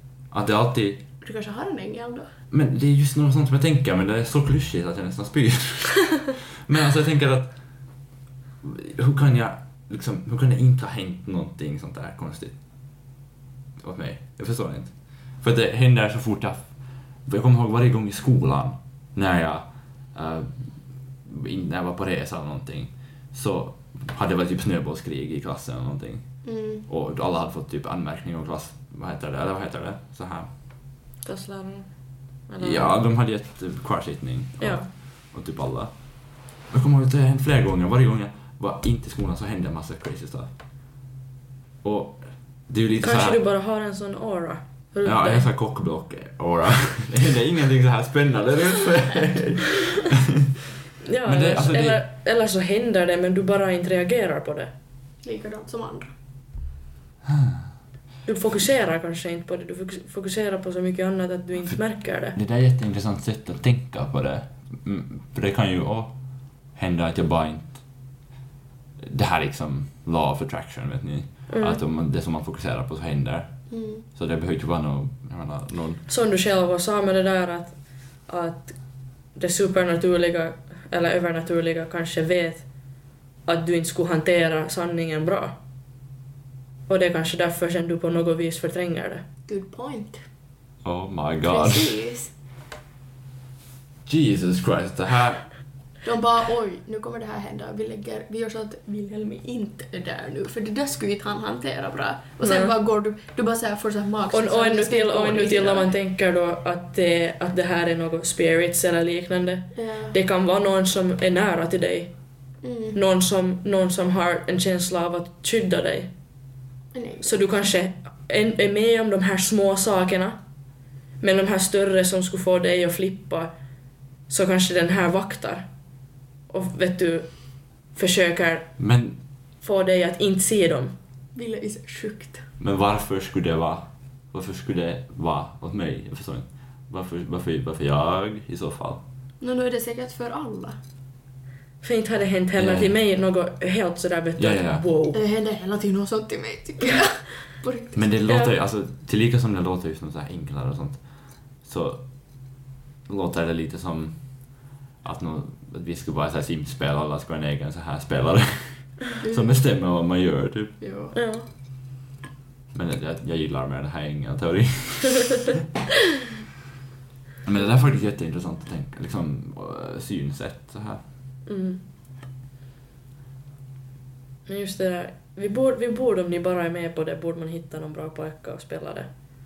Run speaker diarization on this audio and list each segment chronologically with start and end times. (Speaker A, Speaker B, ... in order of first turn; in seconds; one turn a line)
Speaker A: 0.3-1.0
Speaker B: 1.2-2.3
Speaker A: 2.5-7.5
Speaker A: 8.6-12.6
Speaker A: 13.8-16.7
Speaker A: 17.3-20.7
Speaker A: 21.2-26.3
Speaker B: 26.4-26.9
Speaker A: 26.9-30.5
Speaker C: 31.2-31.9
Speaker C: 32.5-33.0
Speaker A: 32.6-34.8
Speaker C: 34.6-34.9
Speaker A: 35.3-35.9
Speaker A: 36.7-40.5
Speaker A: 41.8-43.4
Speaker C: 43.0-45.5
Speaker A: 45.0-50.6
Speaker C: 51.0-54.7
Speaker A: 51.2-52.0
Speaker B: 55.2-56.1
Speaker A: 57.3-57.6
Speaker C: 58.3-62.4
Speaker A: 62.3-66.2
Speaker A: 66.8-67.8
Speaker A: 69.0-73.5
Speaker C: 71.5-71.8
Speaker B: 73.7-74.0
Speaker A: 74.2-76.0
Speaker C: 76.1-78.8
Speaker C: 79.4-82.7
Speaker C: 83.5-85.6
Speaker C: 86.9-89.2
Speaker B: 89.5-90.2
Speaker A: 90.8-92.0
Speaker B: 91.5-92.3
Speaker A: 94.1-95.5
Speaker B: 96.0-105.9
Speaker C: 102.4-102.7
Speaker C: 104.3-112.1
Speaker B: 109.7-110.2
Speaker B: 112.6-113.0
Speaker C: 112.9-116.1
Speaker B: 116.9-117.4
Speaker C: 117.2-120.4
Speaker C: 121.2-123.5
Speaker C: 124.3-125.7
Speaker C: 126.5-127.3
Speaker C: 128.0-128.7
Speaker A: 128.8-129.2
Speaker C: 129.6-130.9
Speaker B: 131.3-132.5
Speaker A: 132.6-139.0
Speaker B: 139.4-140.8
Speaker C: 141.8-145.2
Speaker A: 142.6-142.9
Speaker A: 144.4-144.8
Speaker B: 145.1-148.1
Speaker A: 147.9-151.0
Speaker C: 148.3-148.5
Speaker A: 151.6-152.0
Speaker A: 153.1-154.2
Speaker A: 155.0-160.8
Speaker B: 159.2-159.6
Speaker B: 160.8-161.1
Speaker C: 161.1-161.5
Speaker A: 162.7-165.6
Speaker A: 167.4-171.0
Speaker C: 171.5-171.8
Speaker C: 174.5-179.1